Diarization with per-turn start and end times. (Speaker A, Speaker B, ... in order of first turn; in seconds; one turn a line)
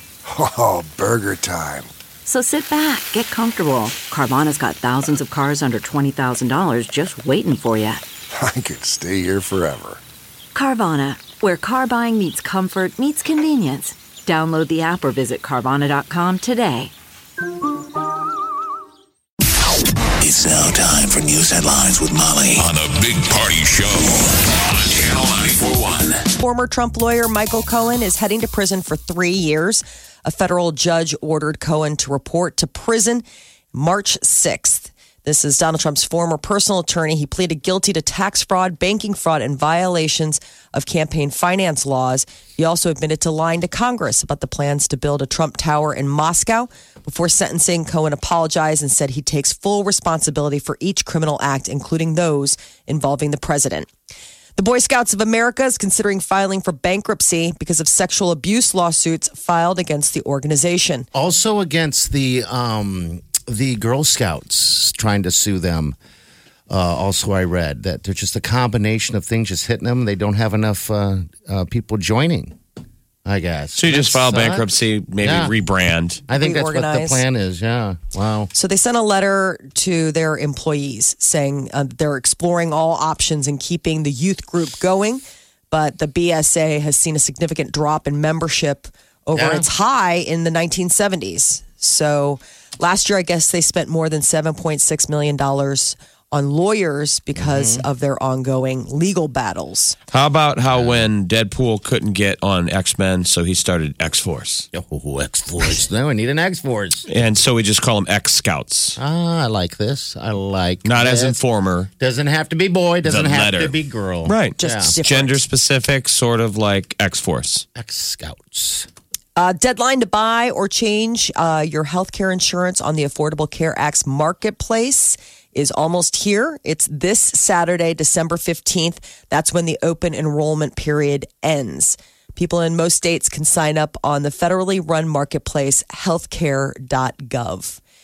Speaker A: 0.3-1.9
Speaker B: 2.2-8.0
Speaker A: 8.3-10.0
Speaker B: 10.5-16.9
Speaker C: 20.2-26.2
Speaker D: 26.4-53.9
Speaker D: 54.6-61.1
Speaker E: 61.1-66.0
Speaker E: 66.7-72.6
Speaker E: 73.2-74.7
Speaker F: 73.8-76.2
Speaker E: 75.2-75.5
Speaker E: 76.3-78.5
Speaker D: 76.3-77.2
Speaker D: 78.5-100.0
Speaker E: 89.3-89.7
Speaker E: 97.4-97.9
Speaker F: 100.1-104.7
Speaker E: 100.7-101.1
Speaker E: 104.7-107.1
Speaker F: 107.1-109.0
Speaker E: 109.0-111.4
Speaker F: 110.8-111.9
Speaker E: 112.0-115.0
Speaker F: 113.0-117.7
Speaker D: 114.6-115.4
Speaker E: 117.8-118.9
Speaker D: 119.4-137.8